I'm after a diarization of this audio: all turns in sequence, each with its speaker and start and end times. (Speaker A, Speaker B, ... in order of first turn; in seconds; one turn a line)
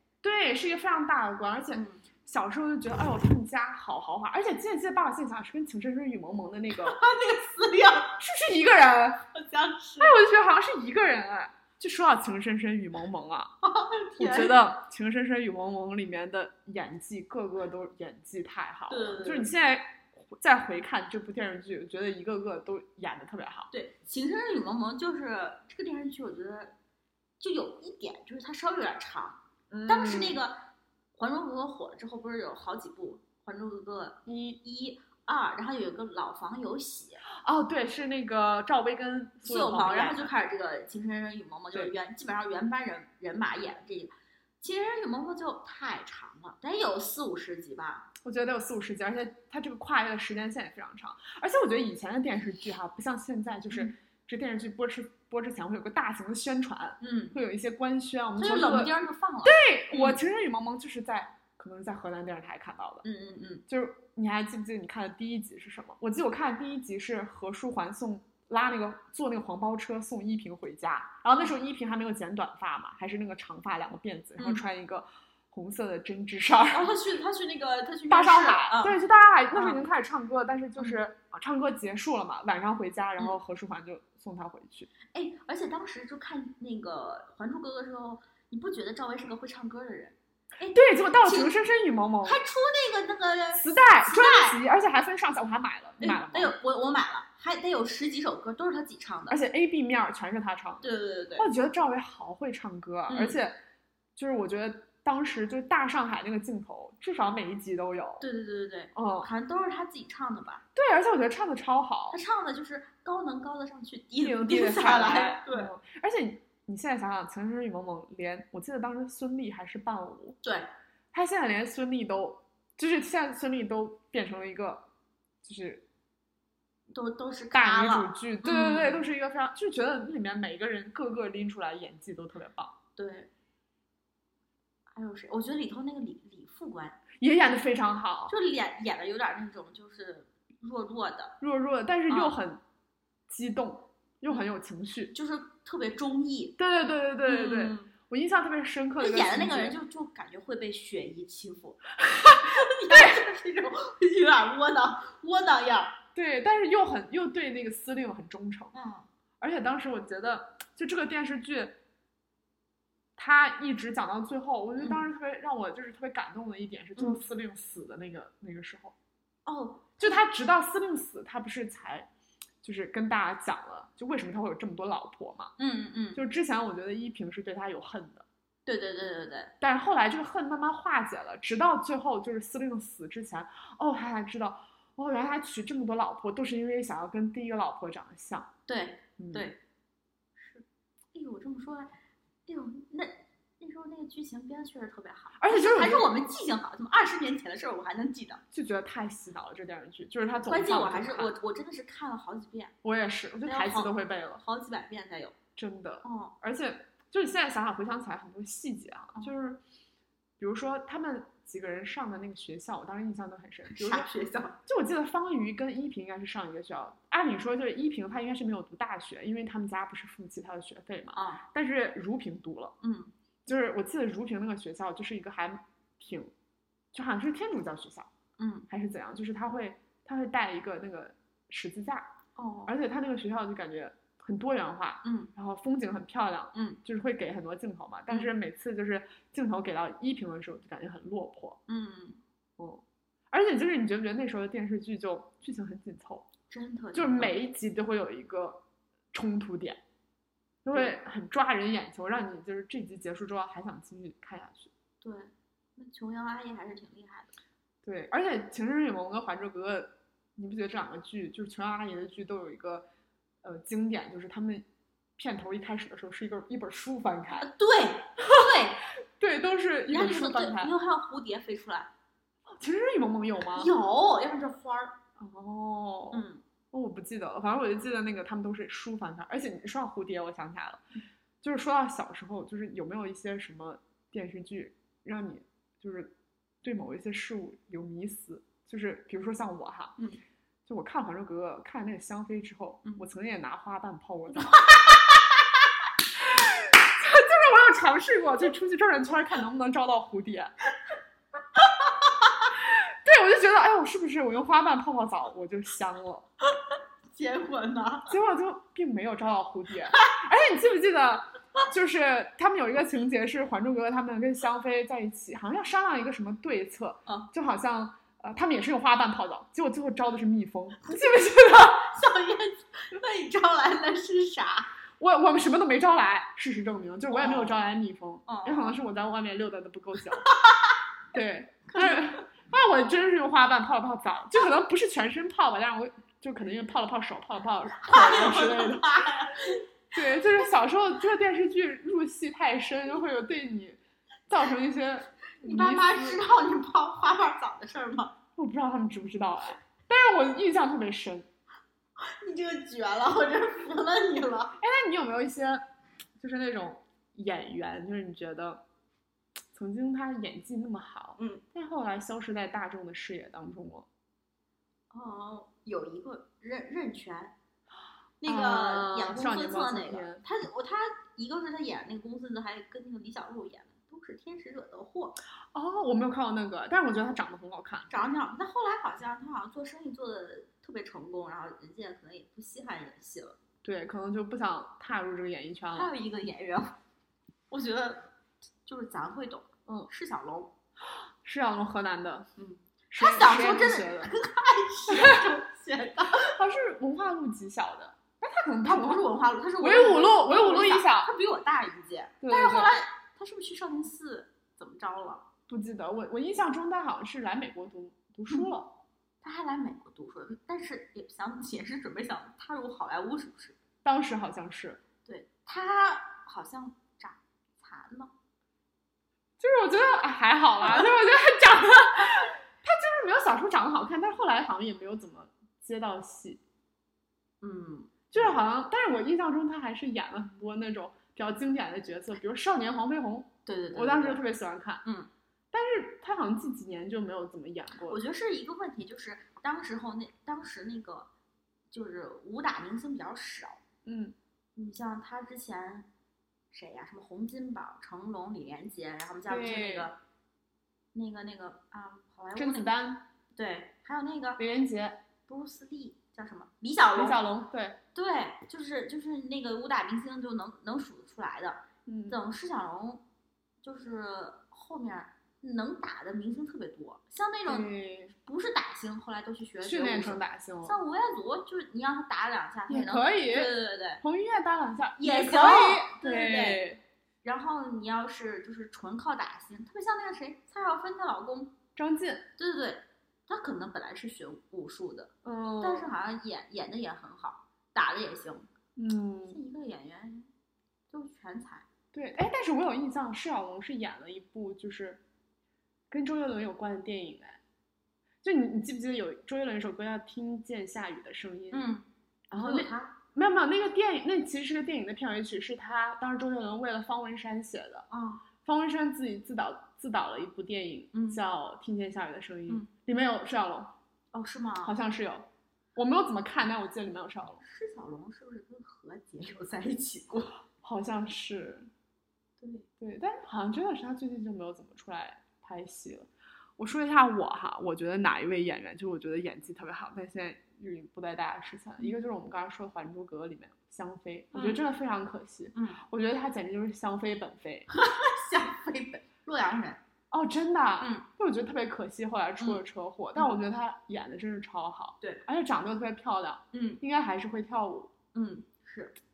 Speaker A: 0.2-7.0
Speaker B: 1.7-2.0
Speaker B: 6.7-8.2
Speaker A: 8.2-9.2
Speaker B: 9.3-10.2
Speaker A: 10.0-13.5
Speaker B: 13.6-14.6
Speaker A: 14.2-23.7
Speaker B: 18.9-19.5
Speaker B: 23.7-26.7
Speaker B: 27.4-30.6
Speaker A: 29.7-30.4
Speaker B: 31.1-37.2
Speaker A: 34.2-34.6
Speaker A: 37.3-40.3
Speaker B: 39.4-48.1
Speaker A: 48.2-63.0
Speaker B: 57.0-57.4
Speaker B: 58.4-60.2
Speaker B: 63.0-63.6
Speaker A: 63.7-76.9
Speaker B: 74.4-74.6
Speaker B: 76.7-79.0
Speaker A: 78.1-84.9
Speaker B: 79.5-79.8
Speaker B: 80.8-81.0
Speaker B: 85.1-91.5
Speaker A: 90.7-92.4
Speaker B: 92.2-94.6
Speaker A: 93.5-96.5
Speaker B: 96.0-99.4
Speaker A: 99.3-103.6
Speaker B: 100.8-101.5
Speaker B: 103.1-103.4
Speaker A: 104.2-108.2
Speaker B: 108.2-110.6
Speaker A: 108.9-109.3
Speaker A: 110.7-112.2
Speaker B: 112.1-115.7
Speaker A: 114.2-120.4
Speaker B: 120.4-120.7
Speaker A: 121.1-124.9
Speaker A: 125.4-125.8
Speaker B: 126.9-129.0
Speaker A: 127.5-132.7
Speaker B: 132.9-133.3
Speaker B: 134.9-137.0
Speaker A: 137.2-138.3
Speaker B: 138.3-141.4
Speaker A: 141.4-142.6
Speaker B: 142.1-142.3
Speaker A: 143.3-145.1
Speaker B: 145.1-146.6
Speaker A: 146.6-149.8
Speaker B: 147.2-147.9
Speaker B: 149.0-155.9
Speaker A: 152.1-153.2
Speaker A: 156.1-158.7
Speaker B: 158.7-159.1
Speaker A: 159.4-161.8
Speaker A: 163.2-168.9
Speaker B: 164.8-165.1
Speaker B: 169.4-170.2
Speaker A: 170.0-172.1
Speaker A: 172.6-175.5
Speaker B: 175.6-176.2
Speaker A: 176.1-178.2
Speaker B: 178.7-179.5
Speaker A: 179.6-188.5
Speaker B: 188.7-189.6
Speaker A: 189.2-189.5
Speaker B: 190.4-191.9
Speaker B: 192.5-198.4
Speaker A: 195.4-196.1
Speaker A: 198.5-201.3
Speaker B: 200.5-202.7
Speaker A: 202.8-204.4
Speaker B: 203.4-205.4
Speaker A: 205.6-209.6
Speaker B: 206.0-206.3
Speaker A: 210.4-214.1
Speaker B: 213.7-214.6
Speaker A: 214.6-222.8
Speaker B: 221.1-221.4
Speaker B: 222.8-223.1
Speaker A: 223.4-226.3
Speaker A: 226.9-228.1
Speaker B: 228.4-228.7
Speaker A: 228.7-232.1
Speaker B: 232.3-232.7
Speaker A: 232.7-241.6
Speaker B: 235.0-235.3
Speaker B: 236.5-236.8
Speaker B: 241.7-242.2
Speaker A: 242.6-246.3
Speaker B: 246.5-247.3
Speaker A: 246.9-249.8
Speaker A: 250.6-254.7
Speaker B: 255.0-257.4
Speaker A: 257.8-262.9
Speaker A: 263.4-264.6
Speaker A: 265.2-267.5
Speaker B: 267.3-268.8
Speaker A: 268.2-268.6
Speaker A: 269.2-270.7
Speaker B: 269.9-271.9
Speaker A: 272.5-273.7
Speaker B: 273.5-275.0
Speaker A: 275.2-280.8
Speaker B: 276.1-276.4
Speaker A: 281.4-290.0
Speaker A: 290.6-294.7
Speaker B: 294.3-295.2
Speaker A: 296.1-300.5
Speaker B: 301.6-302.5
Speaker A: 302.6-306.3
Speaker B: 306.7-308.1
Speaker A: 308.1-321.9
Speaker B: 320.9-324.7
Speaker A: 325.0-330.3
Speaker B: 327.1-327.6
Speaker B: 328.2-328.8
Speaker B: 330.2-330.8
Speaker A: 331.1-339.0
Speaker B: 331.7-332.2
Speaker B: 337.8-339.6
Speaker A: 339.9-346.2
Speaker B: 345.4-348.1
Speaker A: 348.4-351.3
Speaker B: 352.0-354.6
Speaker A: 354.6-355.6
Speaker A: 356.2-358.6
Speaker A: 359.5-363.9
Speaker B: 361.2-361.4
Speaker B: 364.9-367.3
Speaker B: 368.2-375.2
Speaker A: 368.2-370.2
Speaker A: 375.5-377.9
Speaker B: 377.9-383.4
Speaker A: 383.6-385.9
Speaker B: 385.7-386.8
Speaker B: 387.5-388.1
Speaker B: 388.6-390.5
Speaker A: 391.2-392.3
Speaker B: 392.4-396.4
Speaker A: 392.9-394.1
Speaker A: 394.9-395.2
Speaker A: 396.2-399.1
Speaker B: 398.6-405.2
Speaker A: 399.6-401.1
Speaker A: 402.2-402.7
Speaker A: 405.5-408.8
Speaker B: 409.2-413.6
Speaker A: 413.8-414.8
Speaker B: 415.1-418.1
Speaker A: 419.4-426.4
Speaker B: 420.6-420.9
Speaker B: 427.4-428.3
Speaker A: 428.1-434.8
Speaker B: 433.4-434.2
Speaker B: 434.8-435.1
Speaker A: 435.5-438.0
Speaker B: 437.8-441.1
Speaker B: 441.7-443.6
Speaker A: 443.8-444.1
Speaker B: 444.6-445.9
Speaker B: 446.5-450.0
Speaker A: 449.3-449.9
Speaker B: 450.9-452.8
Speaker A: 452.3-453.0
Speaker B: 453.3-454.4
Speaker A: 454.4-455.0
Speaker B: 455.3-457.2
Speaker A: 456.9-457.8
Speaker B: 457.9-463.0
Speaker A: 461.9-462.2
Speaker B: 463.6-474.0
Speaker A: 467.5-468.1
Speaker A: 469.6-470.8
Speaker A: 472.7-476.8
Speaker B: 475.0-476.6
Speaker B: 477.2-481.5
Speaker A: 481.8-482.3
Speaker B: 482.4-488.5
Speaker A: 485.2-485.9
Speaker A: 488.8-489.4
Speaker B: 489.3-490.3
Speaker B: 490.9-491.7
Speaker A: 491.9-495.0
Speaker A: 495.9-497.4
Speaker A: 498.2-501.7
Speaker B: 501.5-502.9
Speaker A: 502.3-507.9
Speaker B: 507.9-508.2
Speaker A: 508.4-513.8
Speaker B: 510.9-511.2
Speaker B: 514.1-514.7
Speaker A: 514.6-517.4
Speaker B: 517.4-520.4
Speaker A: 520.6-521.7
Speaker B: 522.4-522.7
Speaker A: 522.8-537.7
Speaker B: 534.3-534.6
Speaker B: 535.5-535.8
Speaker B: 537.7-539.8
Speaker A: 540.1-547.9
Speaker B: 540.8-541.0
Speaker B: 546.5-546.8
Speaker B: 548.1-549.0